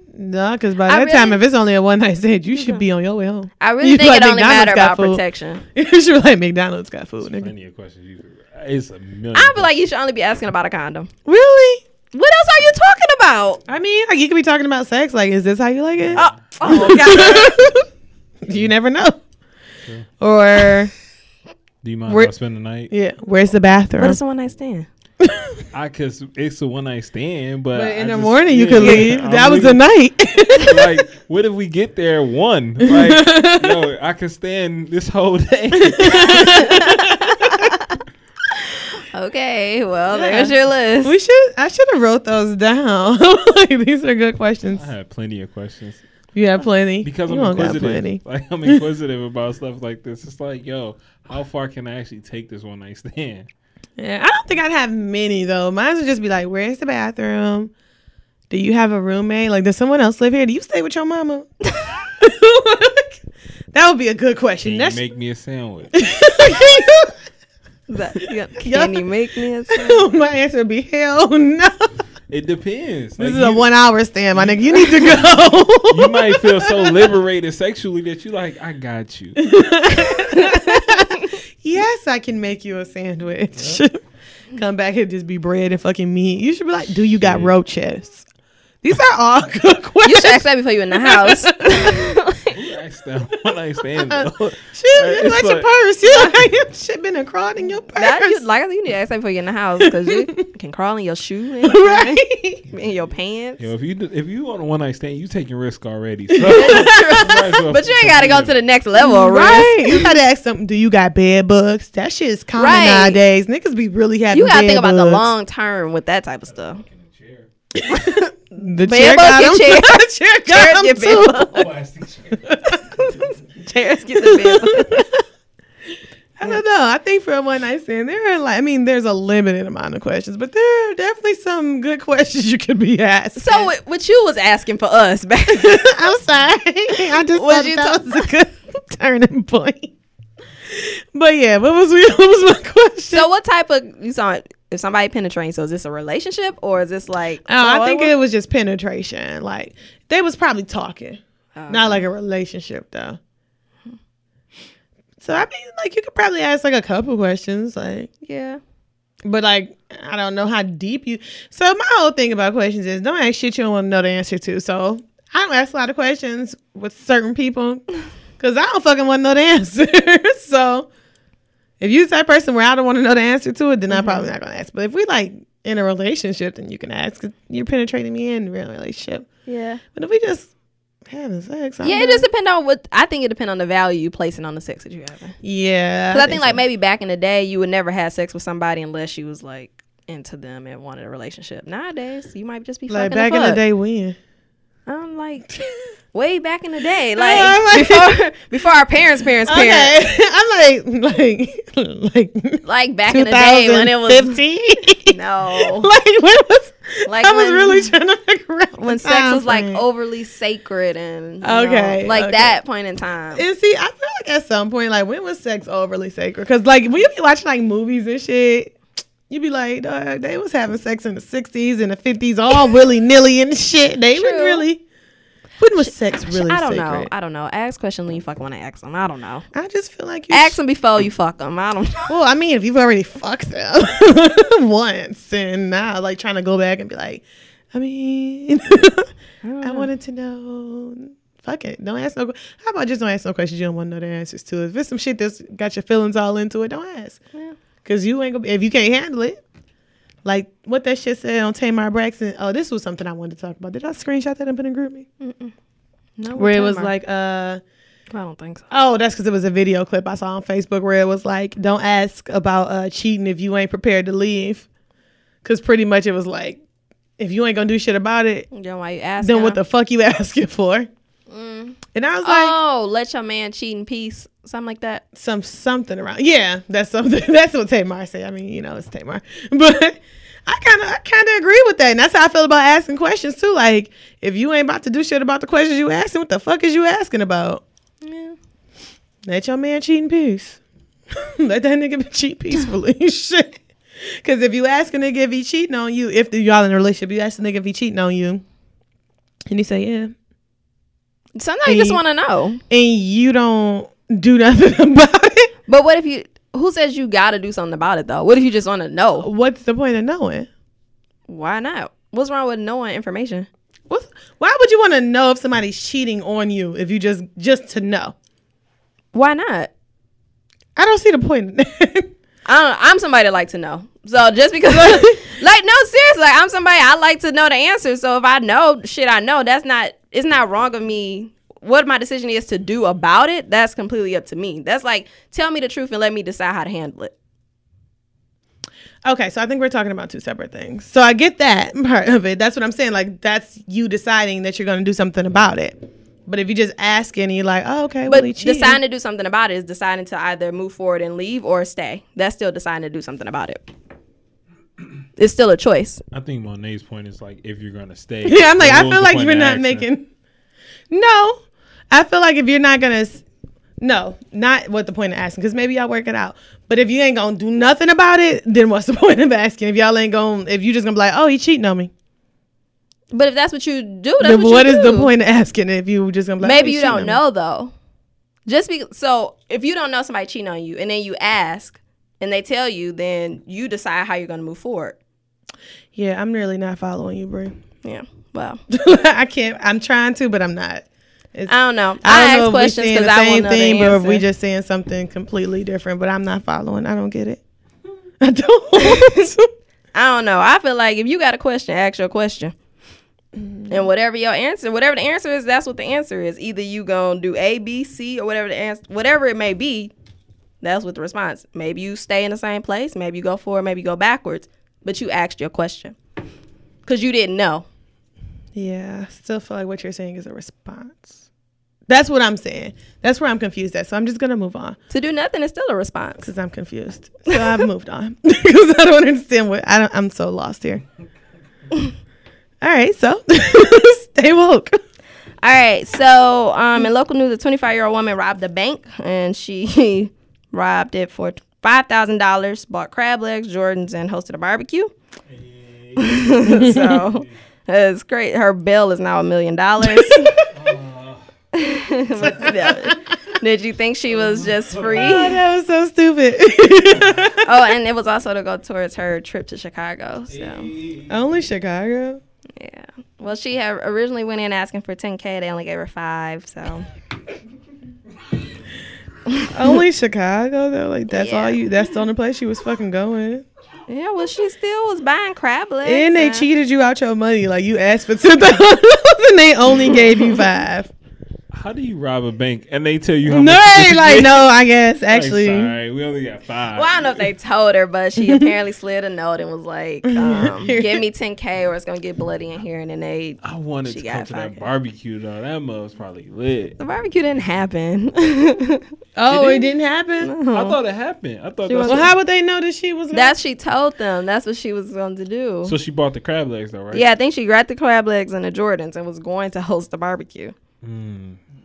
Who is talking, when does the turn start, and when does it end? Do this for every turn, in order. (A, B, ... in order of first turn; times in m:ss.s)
0:00.1-0:05.2 A
0:00.8-0:01.4 B
0:02.5-0:02.8 B
0:03.6-0:05.6 B
0:05.7-0:07.5 A
0:07.2-0:09.7 C
0:09.3-0:11.1 B
0:11.2-0:11.8 A
0:12.1-0:13.6 B
0:13.7-0:17.8 A
0:16.0-0:16.5 C
0:16.2-0:17.6 B
0:18.4-0:19.2 A
0:20.2-0:20.9 A
0:21.8-0:22.9 C
0:22.1-0:22.3 A
0:22.9-0:24.2 A
0:24.0-0:24.9 B
0:25.2-0:25.6 A
0:25.7-0:29.8 C
0:27.7-0:31.0 A
0:28.8-0:29.1 B
0:30.6-0:36.5 C
0:32.8-0:33.8 A
0:35.7-0:37.7 A
0:36.1-0:37.9 B
0:39.1-0:41.2 B
0:40.1-0:44.8 A
0:44.7-0:46.0 C
0:46.3-0:48.8 A
0:47.0-0:53.5 C
0:54.0-0:57.7 A
0:58.5-1:01.5 A
1:02.2-1:03.2 A
1:03.7-1:05.0 A
1:04.6-1:06.1 C
1:05.9-1:07.1 A
1:07.9-1:10.0 B
1:08.6-1:09.1 A
1:09.7-1:11.9 A
1:12.3-1:13.7 C
1:13.2-1:17.1 A
1:14.3-1:15.3 C
1:15.8-1:19.5 C
1:19.4-1:24.0 A
1:20.0-1:21.3 B
1:23.6-1:23.8 C
1:24.5-1:28.2 A
1:27.2-1:27.5 C
1:28.8-1:32.0 A
1:30.0-1:32.5 B
1:32.5-1:35.7 C
1:33.9-1:38.4 A
1:36.1-1:36.4 B
1:37.9-1:43.6 B
1:39.8-1:40.3 A
1:41.6-1:42.6 A
1:42.7-1:43.0 C
1:43.6-1:48.6 C
1:46.3-1:47.4 A
1:46.5-1:50.1 B
1:49.0-1:55.3 A
1:52.6-1:53.2 B
1:54.3-1:56.8 B
1:56.5-1:57.5 C
1:57.8-2:01.6 A
1:57.9-2:01.7 B
2:01.5-2:03.4 C
2:02.4-2:03.0 A
2:03.6-2:05.0 B
2:04.1-2:05.2 A
2:06.4-2:13.7 A
2:13.4-2:16.0 B
2:15.5-2:19.9 A
2:17.3-2:18.3 B
2:20.7-2:23.2 A
2:23.1-2:28.1 B
2:27.4-2:33.2 A
2:31.6-2:32.0 B
2:35.2-2:38.1 A
2:38.2-2:38.6 B
2:39.2-2:47.8 A
2:48.4-2:50.9 A
2:51.8-2:59.3 A
2:53.9-2:54.2 B
2:59.5-2:59.8 B
2:59.9-3:00.5 A
3:01.0-3:02.3 A
3:01.8-3:05.4 B
3:05.4-3:06.6 A
3:06.1-3:13.6 B
3:12.9-3:14.2 A
3:14.9-3:15.6 B
3:16.1-3:20.0 B
3:17.2-3:18.2 A
3:19.4-3:29.8 A
3:22.6-3:24.4 B
3:25.0-3:25.9 B
3:27.0-3:27.9 B
3:28.8-3:33.4 B
3:31.4-3:32.6 A
3:33.3-3:38.8 A
3:39.3-3:44.8 A
3:44.1-3:44.6 B
3:45.6-3:47.1 A
3:45.8-3:49.5 B
3:49.5-3:50.6 A
3:50.3-3:52.1 B
3:52.1-3:59.1 A
3:59.4-3:59.9 B
3:59.6-4:07.2 A
4:07.8-4:09.4 A
4:10.2-4:15.1 A
4:15.2-4:15.5 B
4:16.2-4:16.9 B
4:16.3-4:17.6 A
4:18.1-4:18.7 B
4:18.7-4:24.7 A
4:25.4-4:26.6 A
4:27.2-4:28.5 A
4:28.5-4:29.6 B
4:29.2-4:30.9 A
4:31.3-4:35.0 B
4:31.9-4:32.6 A
4:35.1-4:47.6 A
4:48.0-4:48.4 B
4:49.2-4:50.6 A
4:51.1-4:58.4 A
4:59.5-5:00.1 A
5:01.4-5:02.6 B
5:01.6-5:02.0 A
5:02.7-5:05.5 A
5:05.7-5:09.3 B
5:09.2-5:10.5 A
5:11.3-5:13.5 B
5:13.9-5:18.1 A
5:19.1-5:19.7 B
5:20.8-5:22.1 A
5:22.4-5:37.1 B
5:24.7-5:25.2 A
5:39.0-5:48.8 A
5:48.1-5:53.6 B
5:55.2-5:56.0 B
5:56.1-5:59.8 C
5:58.2-6:00.1 A
6:00.9-6:01.4 A
6:01.9-6:03.2 A
6:03.8-6:11.9 A
6:13.1-6:15.1 B
6:14.2-6:17.2 A
6:16.4-6:17.7 B
6:18.4-6:25.0 B
6:25.9-6:27.6 A
6:27.8-6:28.6 B
6:28.7-6:37.4 A
6:31.5-6:34.2 B
6:38.2-6:39.5 A
6:38.8-6:39.3 B
6:39.9-6:42.5 B
6:43.4-6:43.8 A
6:43.7-6:49.9 B
6:50.6-6:56.0 B
6:56.8-6:57.6 B
6:58.5-7:01.2 A
7:01.9-7:04.8 A
7:04.9-7:06.3 B
7:06.2-7:10.8 A
7:12.6-7:14.8 A
7:15.4-7:24.9 B
7:25.3-7:27.4 C
7:26.0-7:30.3 B
7:29.8-7:30.5 A
7:30.5-7:31.2 C
7:31.5-7:35.4 B
7:32.2-7:33.0 A
7:34.1-7:35.1 C
7:34.9-7:37.6 A
7:36.9-7:37.3 C
7:37.4-7:40.7 B
7:40.3-7:41.2 C
7:41.1-7:42.2 A
7:42.6-7:46.9 B
7:49.5-7:53.4 A
7:51.1-7:51.6 B
7:53.9-7:56.5 B
7:55.8-8:00.9 A
8:01.5-8:04.5 C
8:03.2-8:05.7 A
8:05.1-8:07.3 C
8:06.7-8:14.6 B
8:08.2-8:08.5 A
8:10.0-8:11.0 A
8:13.4-8:16.8 C
8:16.8-8:19.7 B
8:19.2-8:20.3 A
8:20.2-8:20.8 B
8:20.5-8:22.1 C
8:21.6-8:22.1 B
8:21.8-8:23.3 A
8:23.1-8:25.7 B
8:25.6-8:27.1 C
8:26.9-8:30.5 B
8:30.8-8:31.4 C